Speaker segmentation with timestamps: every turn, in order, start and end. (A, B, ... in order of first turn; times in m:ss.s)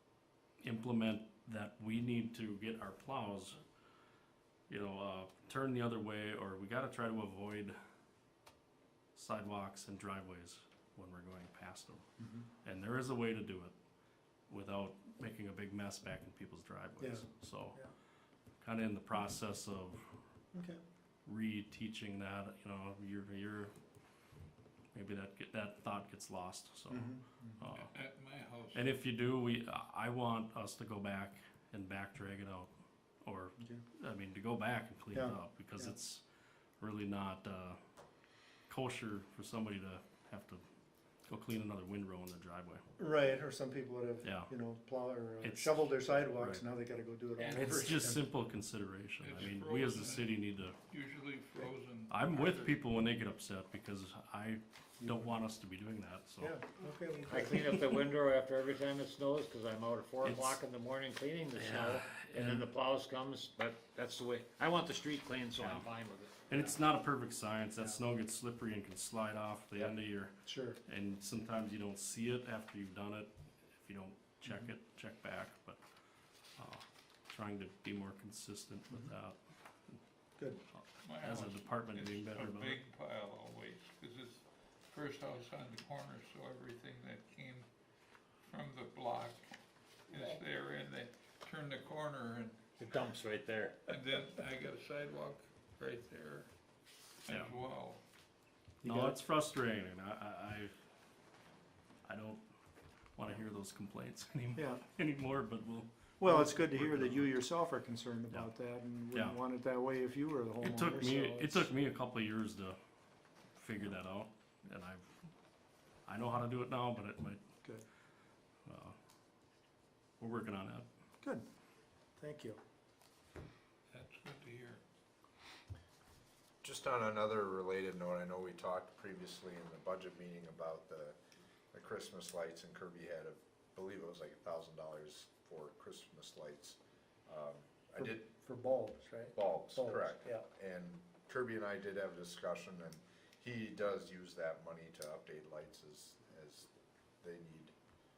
0:00.6-0:03.6 A
0:04.7-0:07.8 A
0:09.2-0:12.1 A
0:12.6-0:13.7 A
0:14.5-0:17.8 A
0:17.0-0:17.9 B
0:18.6-0:20.0 A
0:20.5-0:20.8 B
0:21.2-0:23.7 A
0:24.9-0:27.9 A
0:26.9-0:27.6 B
0:27.8-0:28.9 C
0:28.7-0:32.7 A
0:33.2-0:36.2 A
0:35.1-0:35.9 B
0:36.8-0:37.8 A
0:38.7-0:40.6 A
0:41.3-0:42.8 A
0:43.0-0:48.3 B
0:44.2-0:44.5 A
0:45.4-0:46.6 A
0:47.4-0:47.9 C
0:47.5-0:50.8 A
0:49.2-0:52.8 C
0:52.1-0:56.5 A
0:55.0-0:55.4 B
0:56.4-0:58.0 B
0:58.4-0:59.0 D
1:00.0-1:06.3 D
1:00.2-1:00.6 A
1:01.6-1:02.7 A
1:05.6-1:05.9 A
1:06.5-1:15.8 A
1:10.4-1:10.8 B
1:16.6-1:19.4 A
1:20.8-1:22.8 A
1:21.0-1:27.7 C
1:28.5-1:29.5 C
1:30.1-1:33.1 C
1:33.9-1:36.5 C
1:37.3-1:38.0 C
1:38.8-1:39.2 B
1:38.8-1:40.8 A
1:42.0-1:42.4 A
1:43.2-1:47.4 A
1:44.6-1:44.8 B
1:46.2-1:51.7 B
1:49.1-1:49.4 A
1:50.6-1:52.8 A
1:53.6-1:55.2 A
1:56.1-1:57.4 A
1:58.7-1:59.0 A
2:00.2-2:00.9 A
2:02.2-2:02.6 B
2:03.9-2:04.8 C
2:06.6-2:11.2 E
2:11.7-2:18.3 E
2:18.0-2:20.4 B
2:19.4-2:26.7 E
2:27.2-2:27.7 E